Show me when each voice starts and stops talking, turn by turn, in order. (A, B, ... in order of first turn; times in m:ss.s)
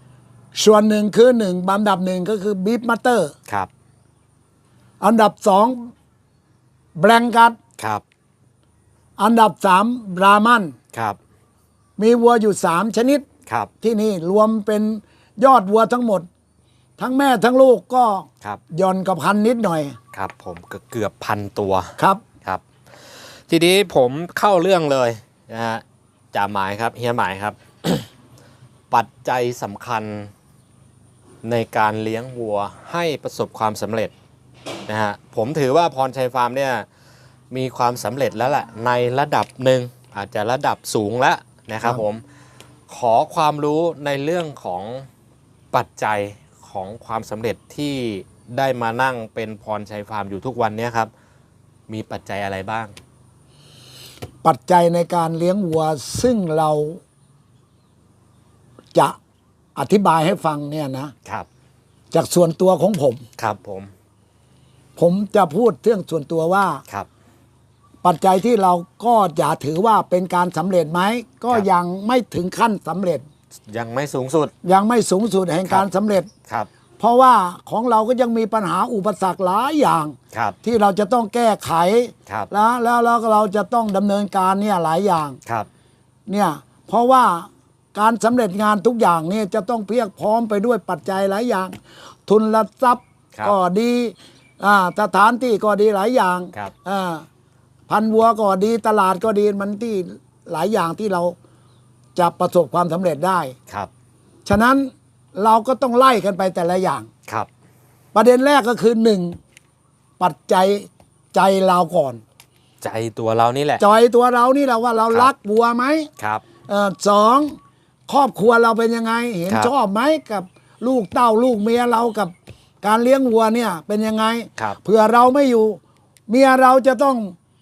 0:00.5-0:03.3 A
0:05.0-0:05.9 A
0:07.0-0:07.6 A
0:07.8-0:08.0 B
0:09.2-0:10.7 A
0:10.9-0:11.2 B
0:12.0-0:13.2 A
0:13.8-0:16.2 A
0:17.0-0:20.0 A
0:20.1-0:22.6 B
0:22.0-0:22.2 A
0:23.5-0:28.1 B
0:28.9-0:30.3 B
0:31.4-0:34.1 B
0:34.9-0:36.9 B
0:37.5-0:42.2 B
0:42.9-0:45.1 B
0:45.7-0:51.1 B
0:51.9-0:53.0 B
0:54.4-0:57.0 A
0:59.8-1:01.1 A
1:02.1-1:03.2 A
1:03.4-1:03.9 B
1:05.0-1:06.8 A
1:08.0-1:13.2 A
1:13.7-1:14.5 B
1:14.6-1:16.3 A
1:17.0-1:25.4 A
1:20.3-1:20.6 B
1:26.3-1:31.7 A
1:32.3-1:37.2 A
1:37.9-1:41.3 A
1:42.2-1:43.5 A
1:44.4-1:47.1 A
1:48.1-1:49.4 A
1:50.2-1:52.2 A
1:52.8-1:53.8 B
1:53.8-1:56.1 A
1:56.2-1:56.4 B
1:56.7-1:57.6 A
1:58.1-2:07.3 A